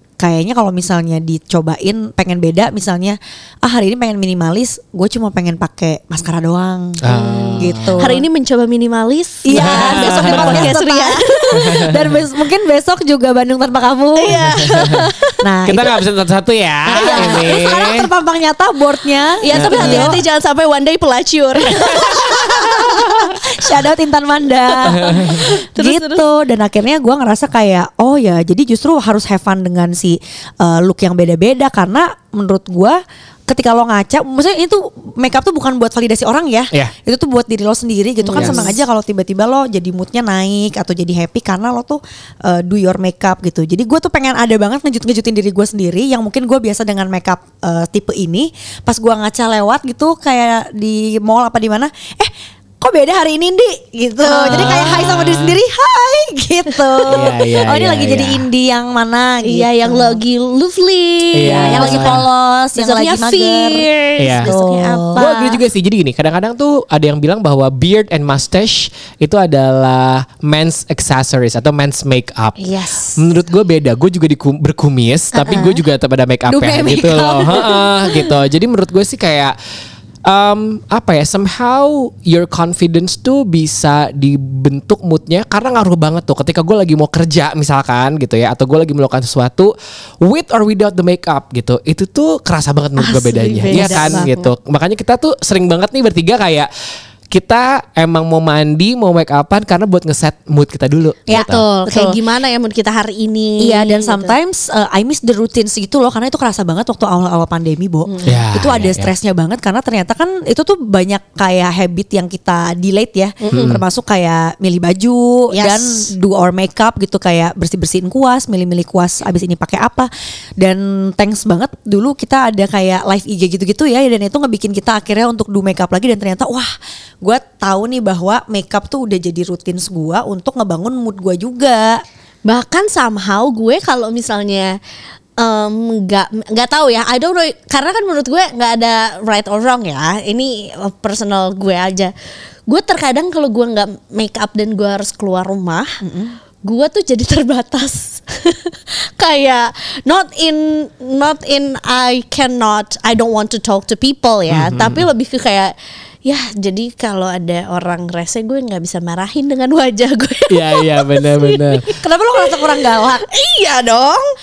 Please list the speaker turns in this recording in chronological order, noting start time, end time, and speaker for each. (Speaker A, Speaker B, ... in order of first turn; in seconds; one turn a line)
Speaker A: 0.2-7.0
Speaker B: 7.0-8.2
Speaker C: 7.1-11.9
Speaker A: 7.6-8.2
Speaker A: 9.4-16.0
Speaker B: 9.5-10.7
Speaker B: 11.6-12.2
Speaker C: 14.2-15.4
Speaker B: 14.5-15.1
Speaker B: 15.7-18.1
Speaker A: 16.9-20.2
Speaker C: 16.9-17.6
Speaker C: 19.4-23.2
Speaker B: 19.5-20.2
Speaker A: 22.0-60.2
Speaker C: 24.7-26.2
Speaker B: 24.9-25.4
Speaker C: 38.2-38.8
Speaker B: 38.4-38.6
Speaker C: 54.2-55.0
Speaker B: 54.5-55.6
Speaker B: 57.1-58.5
Speaker C: 59.4-62.2
Speaker B: 61.3-62.2
Speaker A: 61.4-63.9
Speaker C: 62.7-65.6
Speaker B: 64.2-64.5
Speaker A: 64.4-65.2
Speaker B: 65.2-72.6
Speaker C: 72.6-73.2
Speaker B: 73.2-79.6
Speaker C: 75.3-75.8
Speaker C: 76.5-78.3
Speaker B: 80.2-96.7
Speaker C: 93.0-94.5
Speaker A: 93.6-94.3
Speaker B: 97.3-101.6
Speaker A: 101.3-102.2
Speaker C: 101.3-104.3
Speaker A: 103.6-120.1
Speaker C: 108.1-108.4
Speaker B: 108.2-109.1
Speaker C: 113.4-113.8
Speaker B: 113.5-113.8
Speaker C: 115.5-116.1
Speaker A: 120.6-126.7
Speaker A: 127.2-132.0
Speaker C: 132.4-134.8
Speaker C: 135.4-142.1
Speaker C: 142.7-145.9
Speaker A: 146.0-146.4
Speaker C: 146.6-164.2
Speaker B: 154.5-155.1
Speaker B: 160.5-161.9
Speaker A: 162.0-163.3